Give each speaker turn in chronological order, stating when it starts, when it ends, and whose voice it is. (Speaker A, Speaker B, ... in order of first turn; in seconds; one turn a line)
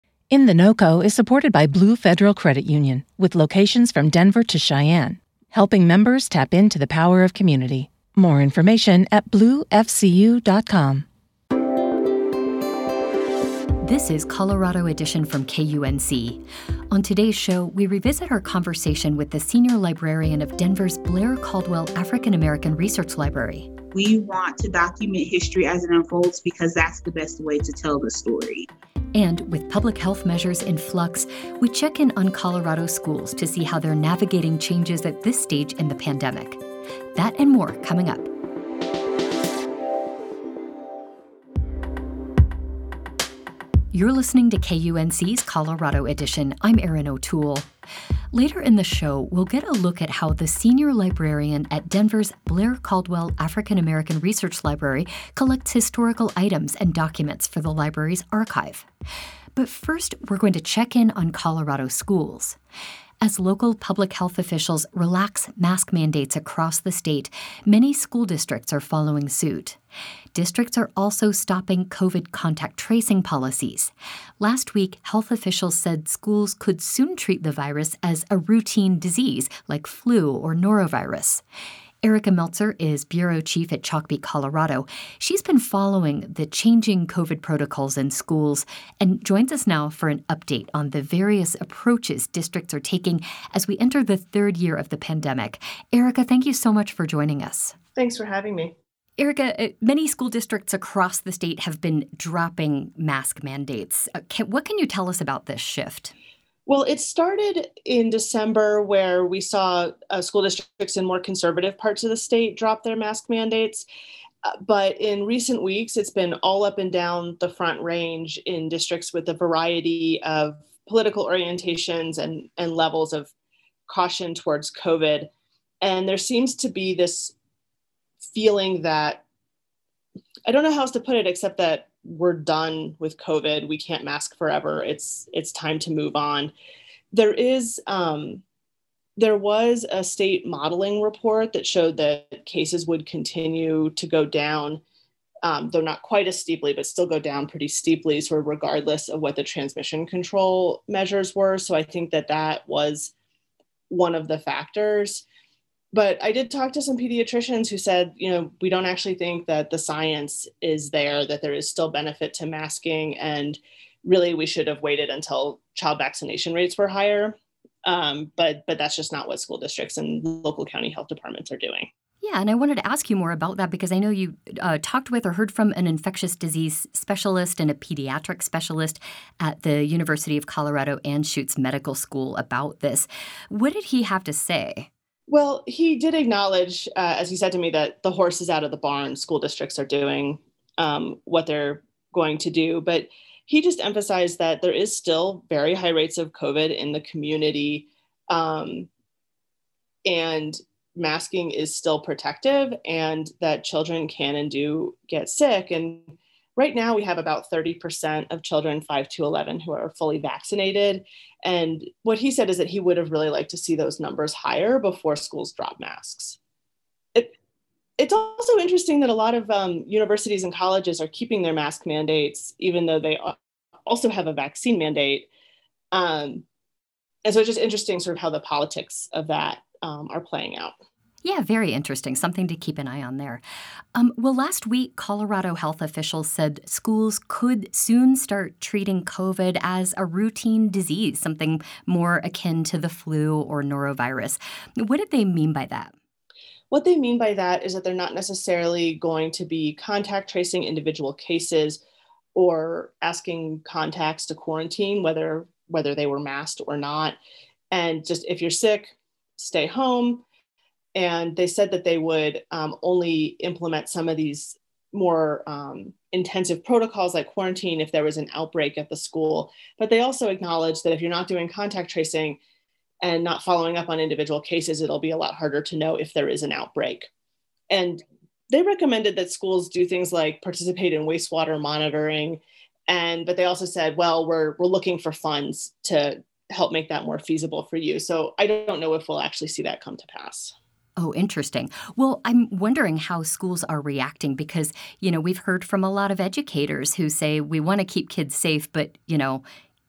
Speaker A: 0.3-11.1
Speaker B: 13.8-23.7
Speaker C: 23.9-28.7
Speaker B: 29.1-36.6
Speaker B: 37.1-38.3
Speaker B: 43.9-47.7
Speaker B: 48.3-58.9
Speaker B: 59.5-62.6
Speaker B: 63.2-69.8
Speaker B: 70.3-81.4
Speaker B: 82.0-97.8
Speaker D: 98.0-98.7
Speaker B: 99.2-106.1
Speaker D: 106.7-113.9
Speaker D: 114.5-123.3
Speaker D: 123.9-125.3
Speaker D: 125.8-127.3
Speaker D: 128.3-129.2
Speaker D: 130.5-136.5
Speaker D: 137.1-138.4
Speaker D: 139.2-144.8
Speaker D: 145.4-153.1
Speaker D: 153.9-155.2
Speaker D: 155.9-171.9
Speaker B: 172.2-184.9
Speaker D: 185.3-198.9
Speaker D: 200.1-216.4
Speaker D: 218.0-225.3
Speaker D: 225.9-226.4
Speaker D: 227.2-230.7
Speaker B: 231.2-233.4
Speaker B: 233.9-245.9
Speaker D: 246.7-251.8
Speaker D: 252.3-257.2
Speaker D: 257.7-260.2
Speaker D: 260.9-272.4
Speaker D: 273.0-277.1
Speaker D: 277.7-290.5
Speaker B: 291.0-299.4